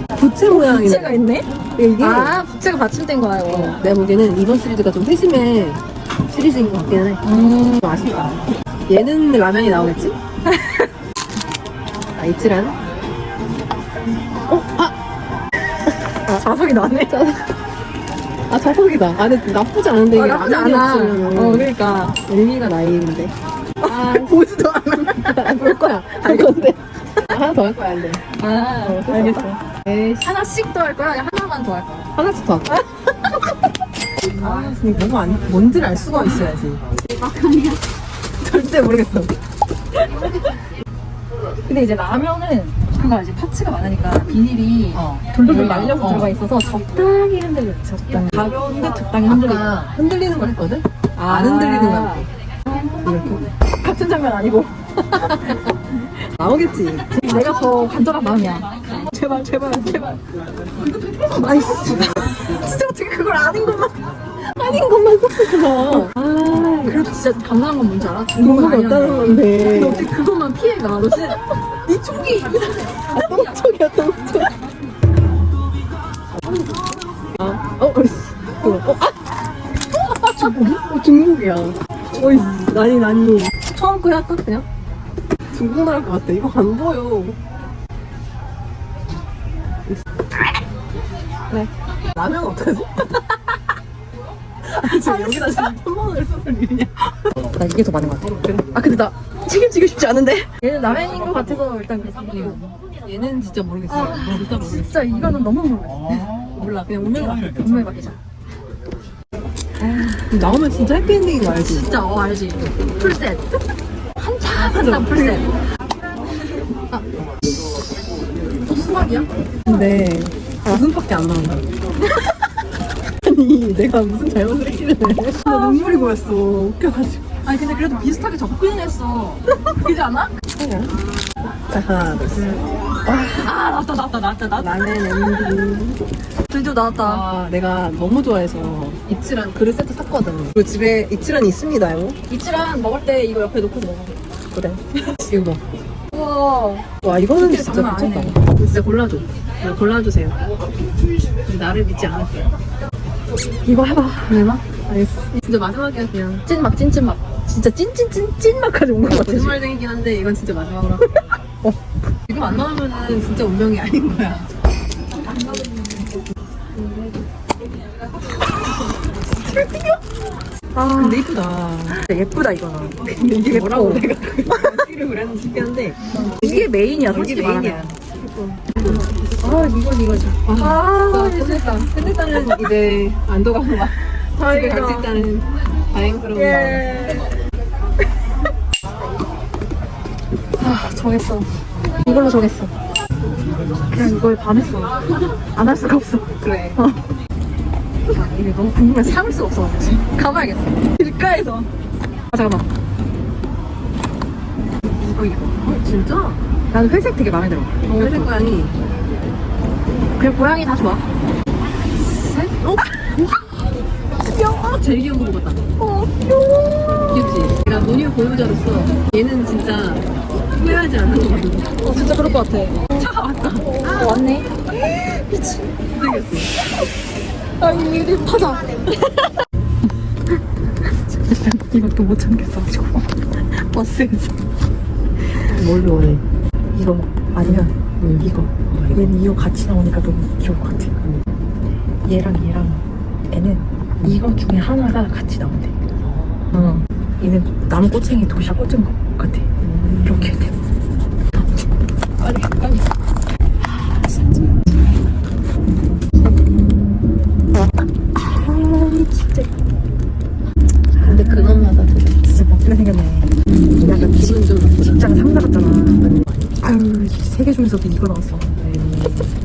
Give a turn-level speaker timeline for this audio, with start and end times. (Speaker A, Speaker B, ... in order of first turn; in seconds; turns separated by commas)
Speaker A: 0.2-1.2, Speaker B: 0.5-3.8, Speaker A: 1.8-2.4, Speaker A: 3.5-10.1, Speaker B: 7.2-7.9, Speaker B: 10.5-10.9, Speaker A: 12.2-12.8, Speaker A: 14.5-14.9, Speaker B: 16.2-17.2, Speaker A: 17.1-17.5, Speaker A: 18.5-21.7, Speaker B: 20.1-22.2, Speaker A: 22.2-28.2, Speaker B: 23.8-26.5, Speaker B: 28.3-29.6, Speaker A: 28.8-30.3, Speaker B: 30.2-31.9, Speaker A: 32.2-32.7, Speaker B: 32.7-33.4, Speaker B: 34.3-34.9, Speaker A: 34.4-36.8, Speaker B: 37.2-37.8, Speaker A: 38.4-39.3, Speaker B: 41.7-49.7, Speaker A: 44.9-46.3, Speaker A: 48.1-48.4, Speaker A: 49.2-52.3, Speaker B: 51.2-52.8, Speaker A: 53.0-53.5, Speaker B: 53.8-55.2, Speaker A: 55.1-55.7, Speaker A: 56.4-57.1, Speaker B: 57.1-60.2, Speaker B: 60.8-63.8, Speaker A: 61.3-62.4, Speaker A: 63.4-63.9, Speaker A: 64.5-67.1, Speaker B: 65.8-66.1, Speaker B: 66.8-73.1, Speaker A: 68.3-70.1, Speaker A: 71.9-74.5, Speaker A: 76.5-76.7, Speaker A: 77.4-79.2, Speaker A: 79.9-84.7, Speaker B: 80.4-80.7, Speaker A: 85.5-87.4, Speaker A: 91.5-93.6, Speaker A: 94.6-97.3, Speaker B: 94.8-95.8, Speaker B: 97.6-102.8, Speaker A: 101.1-101.4, Speaker A: 102.3-105.4, Speaker B: 103.9-106.4, Speaker A: 106.5-107.6, Speaker B: 107.1-108.2, Speaker B: 109.8-110.3, Speaker A: 110.3-111.9, Speaker B: 111.5-113.5, Speaker B: 114.2-115.5, Speaker A: 114.5-115.6, Speaker B: 118.7-119.3, Speaker A: 119.7-121.7, Speaker A: 123.2-127.3, Speaker B: 125.2-126.4, Speaker B: 127.4-130.3, Speaker A: 130.5-133.5, Speaker B: 132.3-134.7, Speaker A: 134.6-136.0, Speaker B: 136.5-137.2, Speaker A: 136.9-142.2, Speaker B: 142.3-145.2, Speaker A: 145.2-145.6, Speaker B: 146.1-148.5, Speaker A: 147.0-150.4, Speaker A: 151.4-152.5, Speaker B: 153.6-154.4, Speaker A: 154.3-156.4, Speaker B: 156.4-159.6, Speaker A: 159.0-161.0, Speaker A: 162.3-164.5, Speaker B: 165.2-166.2, Speaker A: 169.5-170.0, Speaker B: 170.7-171.3, Speaker A: 171.0-172.0, Speaker B: 171.9-174.8, Speaker A: 173.0-179.8, Speaker B: 176.1-178.0, Speaker B: 178.8-181.9, Speaker A: 180.4-187.2, Speaker B: 184.3-185.1, Speaker B: 186.3-187.4, Speaker B: 190.6-191.5, Speaker B: 192.0-192.7, Speaker B: 193.9-195.0, Speaker B: 195.5-197.0, Speaker A: 196.4-196.8, Speaker B: 198.1-201.7, Speaker B: 202.3-202.7, Speaker B: 205.0-205.6, Speaker A: 205.6-206.4, Speaker B: 206.7-208.5, Speaker A: 207.9-208.8, Speaker B: 210.2-211.0, Speaker B: 212.1-212.6, Speaker A: 212.6-213.3, Speaker A: 214.2-215.6, Speaker B: 215.8-217.3, Speaker A: 217.0-223.7, Speaker B: 221.8-225.7, Speaker A: 225.9-226.5, Speaker B: 227.6-229.2, Speaker B: 231.1-234.3, Speaker A: 235.5-236.2, Speaker B: 236.8-241.2, Speaker A: 237.5-239.0, Speaker B: 242.0-245.8, Speaker B: 246.5-250.5, Speaker A: 252.2-252.8, Speaker B: 252.2-252.8, Speaker A: 254.0-254.5, Speaker B: 256.2-257.0, Speaker B: 258.1-259.5, Speaker B: 260.9-269.2, Speaker A: 261.0-262.2, Speaker A: 263.8-265.0, Speaker A: 268.7-269.1